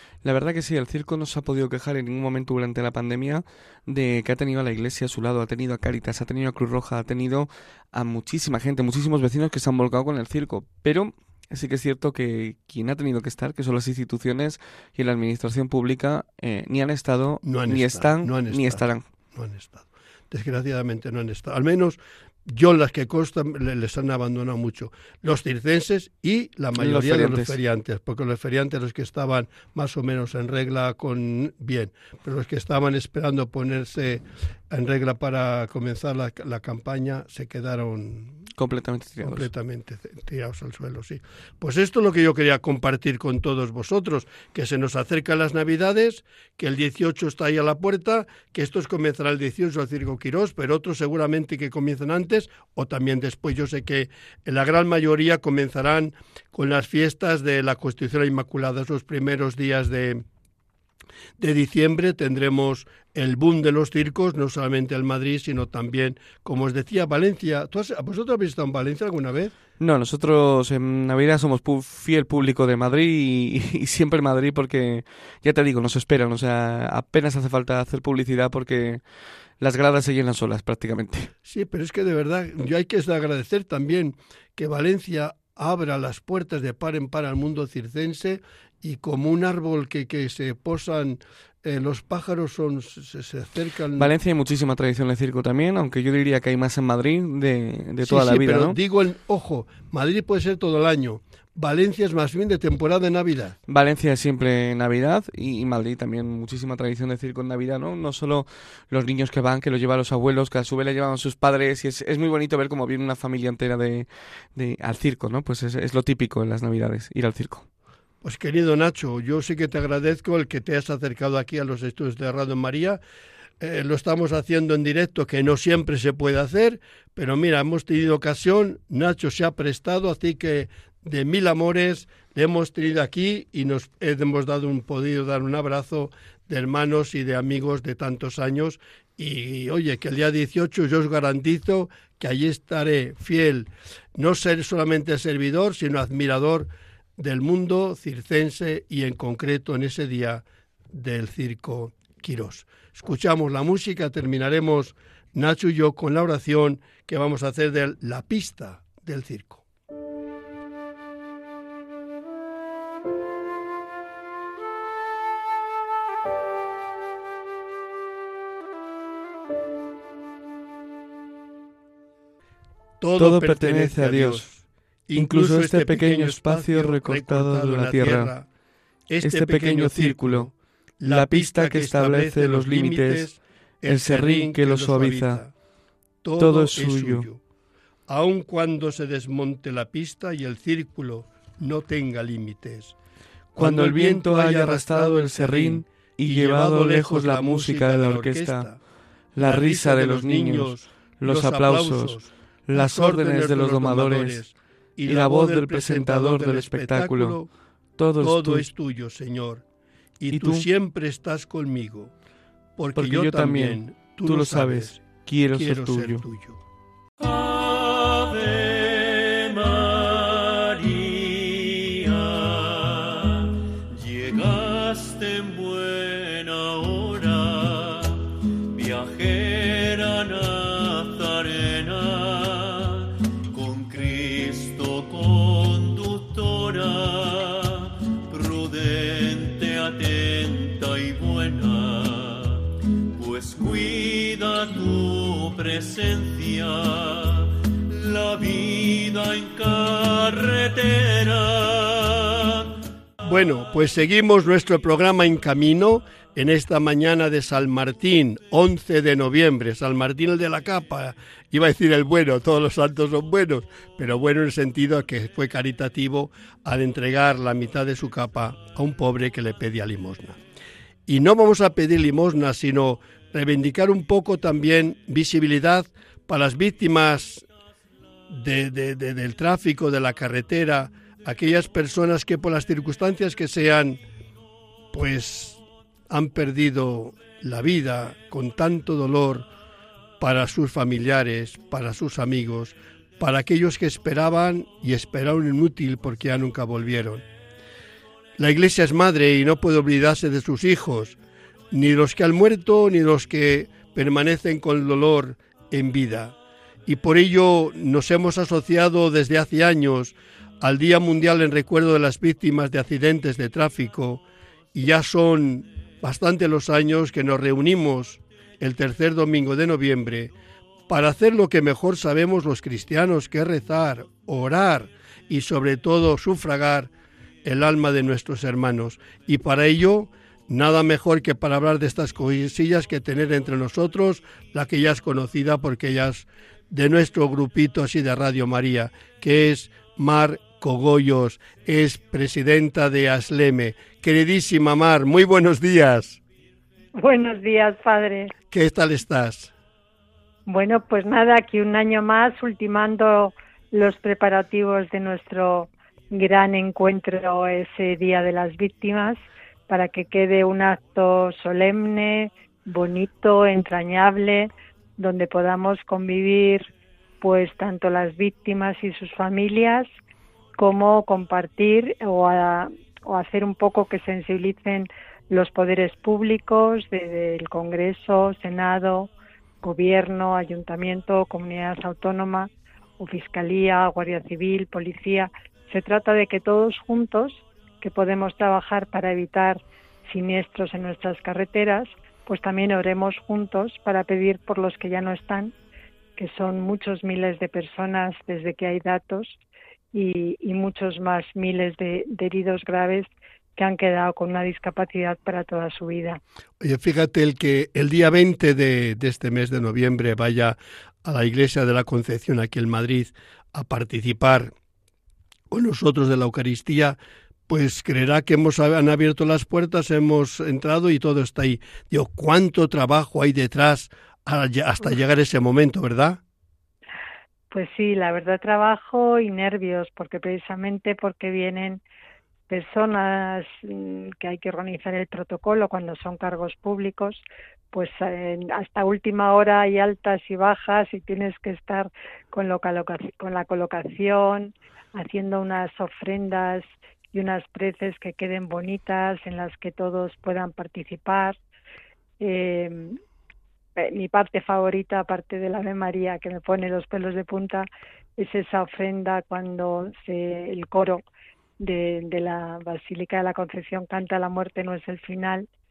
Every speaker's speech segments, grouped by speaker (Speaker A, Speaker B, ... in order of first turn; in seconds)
Speaker A: 0.2-19.1, 26.8-27.6, 38.6-39.5, 69.8-79.0, 79.6-81.3, 94.0-98.8, 103.7-117.7, 173.2-174.5, 175.2-178.3, 179.2-180.5, 181.1-183.3, 183.9-185.4, 186.4-187.3, 193.6-198.7, 199.3-204.4, 205.1-207.4, 208.0-208.7, 210.3-210.7, 212.9-216.2
Speaker B: 17.4-38.4, 39.2-60.2, 61.4-69.5, 81.5-94.1, 98.0-103.6, 118.2-123.0, 123.6-159.6, 173.0-178.5, 179.1-185.5, 186.2-187.4, 188.1-192.9, 193.5-198.8, 199.4-207.5, 208.2-209.6, 210.2-212.1, 212.8-216.6, 253.2-270.4, 271.1-277.4, 278.3-284.0, 284.9-289.5, 290.2-297.2, 298.4-301.2, 301.7-306.4, 306.9-320.3, 320.9-326.9, 327.4-346.2, 348.5-349.5, 406.6-414.5, 415.5-417.0, 417.5-426.2
Speaker C: 217.2-252.7
Speaker D: 346.9-348.3, 350.5-366.7, 367.2-369.9, 370.6-379.1, 379.6-395.5, 396.2-399.4, 399.9-406.2, 427.5-431.8, 432.5-451.4, 452.2-453.0, 453.8-461.0, 461.6-465.5